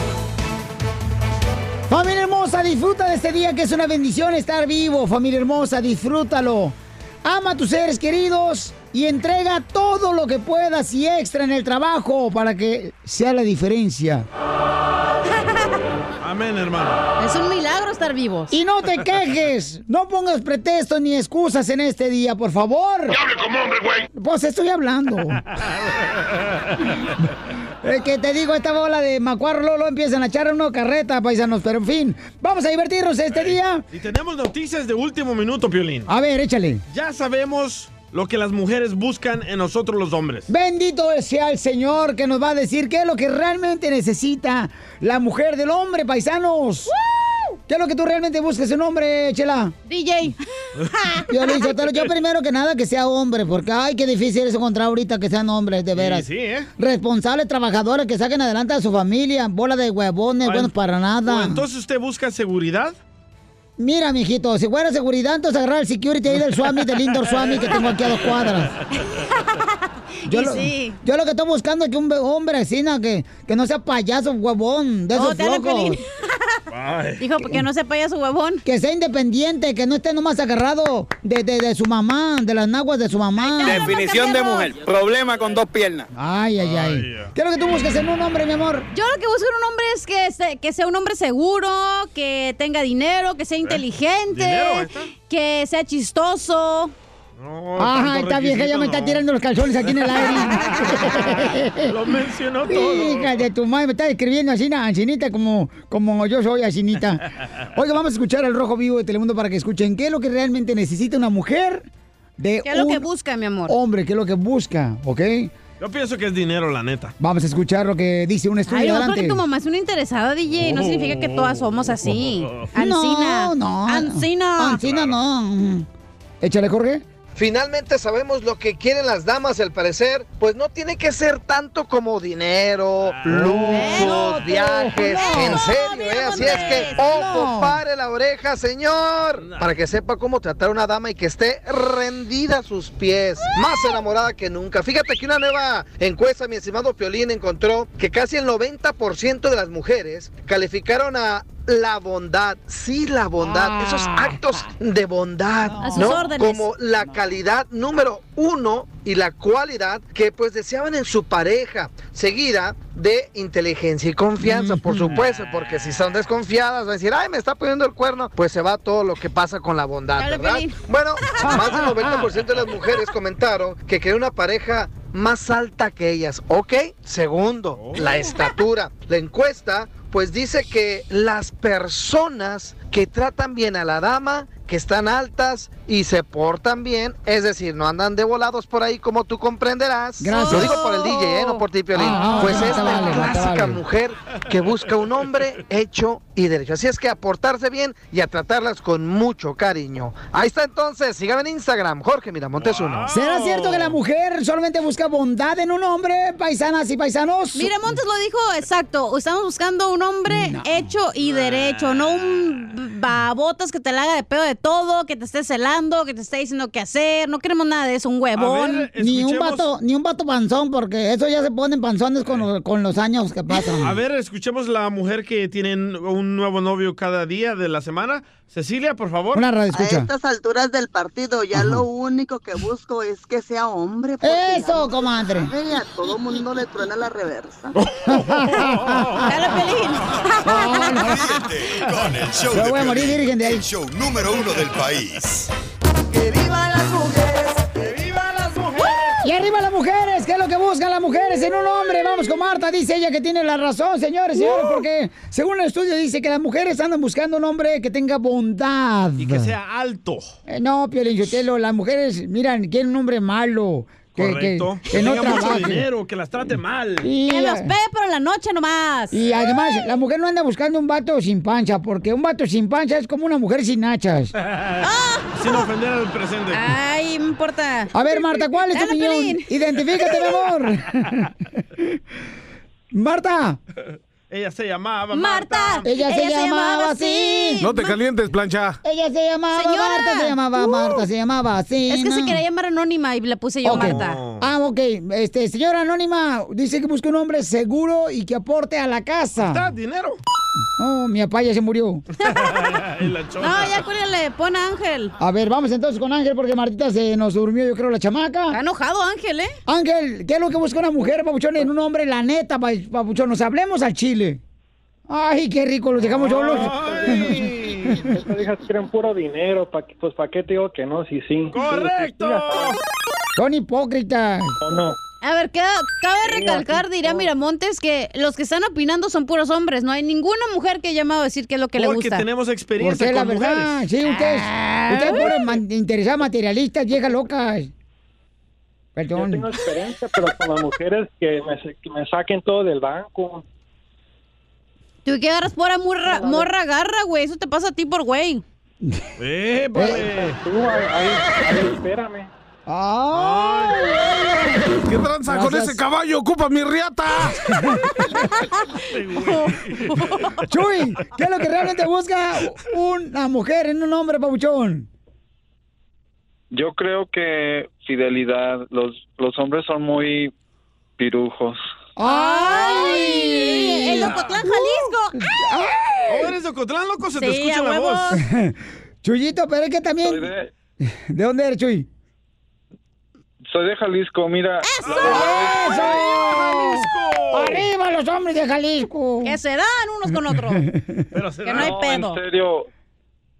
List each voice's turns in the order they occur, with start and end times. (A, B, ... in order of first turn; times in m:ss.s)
0:01.9-0:14.3 A
0:16.2-0:17.0 B
0:17.2-0:18.5 C
0:18.5-0:23.2 A
0:24.1-0:25.4 A
0:27.8-0:33.8 A
0:33.3-0:36.1 B
0:36.1-0:36.8 A
0:36.9-0:40.5 B
0:40.5-0:46.9 A
0:47.7-0:49.7 A
0:49.9-0:50.4 C
0:51.3-0:56.3 A
0:55.9-0:56.7 B
0:56.8-1:01.6 A
1:00.4-1:00.7 B
1:01.2-1:03.0 B
1:03.8-1:08.7 A
1:06.3-1:08.5 B
1:09.2-1:09.6 C
1:10.2-1:11.0 C
1:10.3-1:16.0 A
1:15.1-1:16.0 C
1:16.7-1:17.3 B
1:17.2-1:18.6 C
1:18.6-1:23.9 A
1:23.4-1:24.9 C
1:23.6-1:26.1 D
1:26.1-1:28.9 A
1:26.6-1:27.3 B
1:28.9-1:36.9 C
1:33.6-1:35.1 B
1:37.4-1:39.3 B
1:37.8-1:41.9 A
1:39.8-1:41.3 B
1:41.9-1:43.4 B
1:42.7-1:47.2 A
1:47.7-1:53.0 A
1:52.6-1:53.7 C
1:53.7-1:55.5 A
1:55.8-1:57.1 B
1:57.2-1:59.4 A
1:58.7-2:04.8 C
2:00.5-2:02.7 B
2:02.7-2:05.9 A
2:04.8-2:05.2 B
2:06.4-2:07.0 A
2:07.4-3:23.1 E
2:13.0-2:13.3 B
2:13.3-2:15.6 A
2:13.6-2:14.3 C
2:15.0-2:17.4 C
2:16.4-2:17.8 A
2:19.4-2:19.7 B
2:33.4-2:34.4 A
2:35.8-2:36.6 C
2:35.8-2:36.1 A
2:44.4-2:45.2 A
2:50.2-2:50.8 C
2:51.4-2:51.8 C
2:51.4-2:51.7 A
2:57.7-2:58.1 B
3:10.2-3:10.8 A
3:10.3-3:11.6 C
3:11.9-3:13.8 A
3:12.2-3:13.1 C
3:22.6-3:24.0 B
3:23.1-3:27.7 A
3:27.5-3:38.9 C
3:31.2-3:32.1 B
3:38.4-3:39.7 B
3:39.0-3:44.0 A
3:43.8-3:49.4 B
3:49.3-3:50.1 A
3:49.7-3:57.7 F
3:54.2-3:55.5 A
3:58.0-3:59.2 B
3:58.1-3:59.3 A
3:59.2-4:01.3 C
4:00.4-4:01.2 A
4:01.0-4:05.5 G
4:02.5-4:03.6 A
4:06.1-4:08.8 F
4:09.2-4:19.5 A
4:19.2-4:20.4 B
4:20.5-4:25.8 A
4:24.1-4:27.1 B
4:27.0-4:27.7 A
4:27.3-4:29.1 C
4:29.1-4:34.3 A
4:34.4-4:36.7 B
4:34.8-4:35.7 C
4:36.5-4:40.4 C
4:37.9-4:41.1 A
4:42.9-4:43.6 A
4:44.3-4:45.9 B
4:45.1-4:47.8 C
4:45.8-4:47.7 A
4:47.6-4:48.8 H
4:48.8-4:52.4 A
4:49.5-4:50.4 C
4:51.9-4:54.2 C
4:53.6-4:59.7 A
4:53.7-4:54.5 B
4:59.4-5:00.2 B
5:00.8-5:02.0 A
5:02.2-5:02.6 C
5:02.3-5:03.8 B
5:03.4-5:05.1 C
5:05.2-5:08.6 A
5:08.5-5:09.5 C
5:09.7-5:14.4 A
5:15.1-5:17.3 A
5:15.9-5:18.1 B
5:16.5-5:17.0 I
5:18.1-5:22.6 I
5:21.5-5:22.8 B
5:23.4-5:24.6 A
5:24.6-5:25.0 I
5:25.2-5:32.3 C
5:26.2-5:27.3 I
5:31.8-5:33.8 B
5:32.8-5:37.7 A
5:34.0-5:35.3 C
5:39.0-5:39.5 A
5:39.1-5:43.4 I
5:45.0-5:48.4 C
5:46.1-5:46.5 I
5:49.2-5:50.4 B
5:49.8-5:50.0 A
5:50.0-5:52.3 I
5:52.7-5:54.6 A
5:53.1-5:53.9 B
5:54.6-5:57.4 H
5:55.3-5:55.8 A
5:58.1-6:00.3 C
5:58.9-6:00.4 B
6:00.5-6:04.9 A
6:06.5-6:10.3 J
6:11.0-6:11.6 J
6:12.0-6:14.2 A
6:12.0-6:15.1 C
6:15.4-6:16.3 A
6:16.1-6:18.2 B
6:17.1-6:18.2 C
6:19.0-6:20.3 A
6:20.0-6:20.5 J
6:21.1-6:21.9 A
6:23.5-6:25.7 J
6:24.7-6:25.3 C
6:24.8-6:27.7 B
6:25.0-6:29.4 A
6:29.2-6:30.6 C
6:31.1-6:32.1 B
6:31.4-6:32.2 C
6:31.6-6:32.7 J